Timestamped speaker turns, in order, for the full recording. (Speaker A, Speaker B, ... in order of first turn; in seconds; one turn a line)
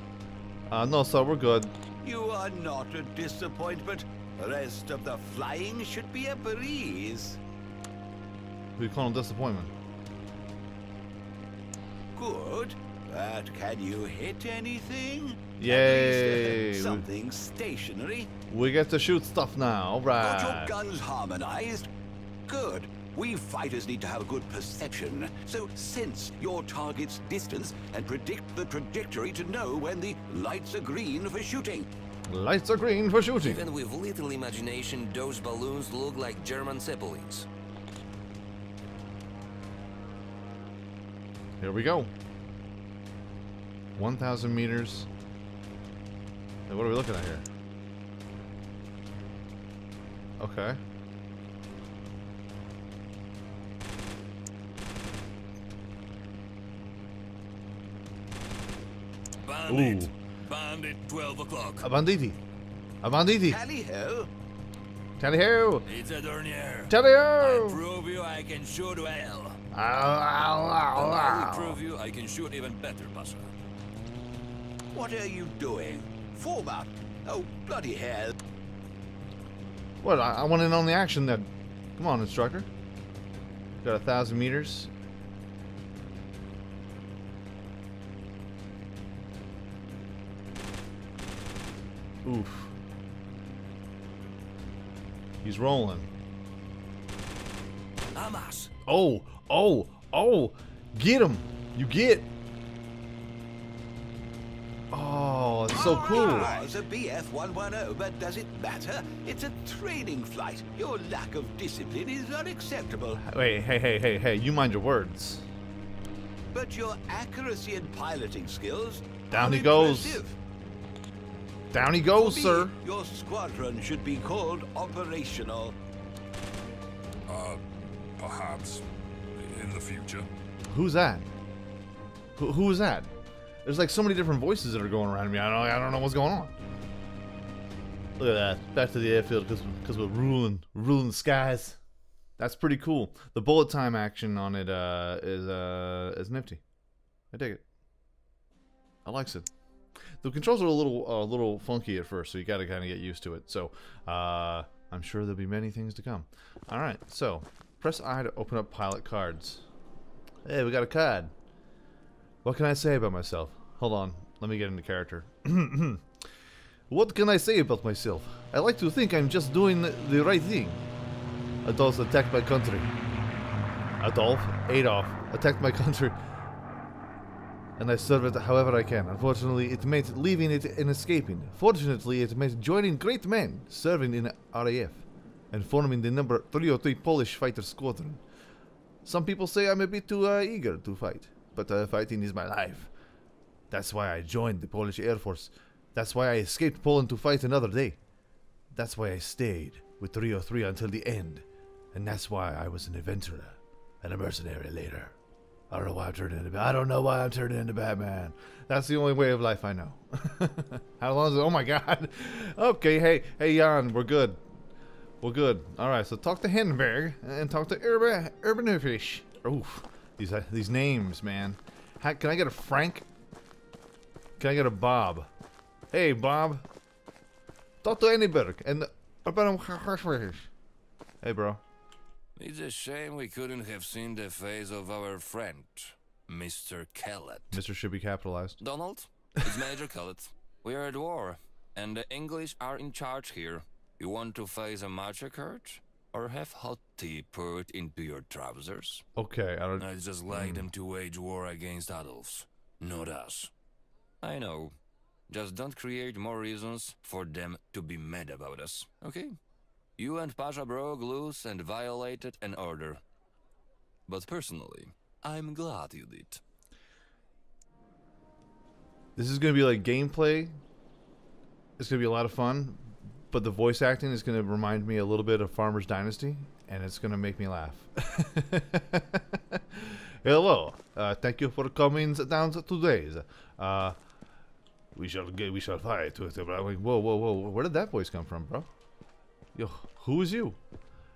Speaker A: 0.7-1.7
Speaker B: 2.0-7.4
Speaker A: 8.8-9.7
Speaker B: 12.1-18.3
Speaker A: 15.6-17.0
Speaker A: 18.5-20.7
Speaker B: 20.2-21.9
Speaker B: 22.4-31.9
Speaker A: 32.3-33.6
Speaker C: 33.4-37.5
Speaker A: 41.6-42.1
Speaker A: 44.0-45.1
Speaker A: 46.7-47.5
Speaker A: 50.4-50.8
Speaker C: 59.4-61.9
Speaker A: 59.7-60.1
Speaker A: 61.8-62.4
Speaker A: 63.0-63.6
Speaker B: 63.4-64.3
Speaker A: 65.2-65.9
Speaker C: 65.9-69.6
Speaker A: 66.9-67.8
Speaker A: 69.7-71.8
Speaker C: 70.9-73.6
Speaker B: 74.9-78.3
Speaker A: 80.0-82.7
Speaker A: 83.8-84.9
Speaker A: 92.2-92.7
Speaker A: 95.4-96.1
Speaker C: 98.1-98.7
Speaker A: 98.8-102.3
Speaker A: 104.9-106.5
Speaker B: 105.7-113.2
Speaker C: 105.8-106.7
Speaker A: 113.2-115.5
Speaker B: 116.5-120.4
Speaker A: 119.3-120.2
Speaker A: 121.7-122.7
Speaker B: 122.1-125.8
Speaker D: 127.3-127.6
Speaker D: 128.2-130.3
Speaker A: 130.7-131.3
Speaker A: 132.3-133.1
Speaker A: 133.6-136.6
Speaker A: 138.2-141.8
Speaker A: 142.4-146.6
Speaker A: 147.3-147.6
Speaker A: 149.0-149.5
Speaker A: 150.2-159.6
Speaker A: 160.4-161.3
Speaker A: 162.4-166.0
Speaker A: 166.9-170.9
Speaker A: 171.6-172.9
Speaker A: 174.0-176.2
Speaker A: 177.8-188.2
Speaker A: 189.0-192.9
Speaker A: 193.7-198.0
Speaker A: 198.7-205.1
Speaker A: 205.7-214.4
Speaker A: 215.2-223.1
Speaker A: 224.4-225.3
Speaker A: 225.9-226.7
Speaker A: 227.8-230.5
Speaker A: 231.2-231.6
Speaker C: 232.4-237.6
Speaker A: 237.5-238.6
Speaker C: 238.6-249.0
Speaker A: 249.2-250.7
Speaker C: 249.8-253.5
Speaker C: 254.2-254.7
Speaker C: 255.3-259.3
Speaker C: 260.0-263.0
Speaker C: 264.1-266.4
Speaker A: 269.2-270.6
Speaker A: 271.8-283.9
Speaker A: 284.9-288.7
Speaker A: 289.5-290.6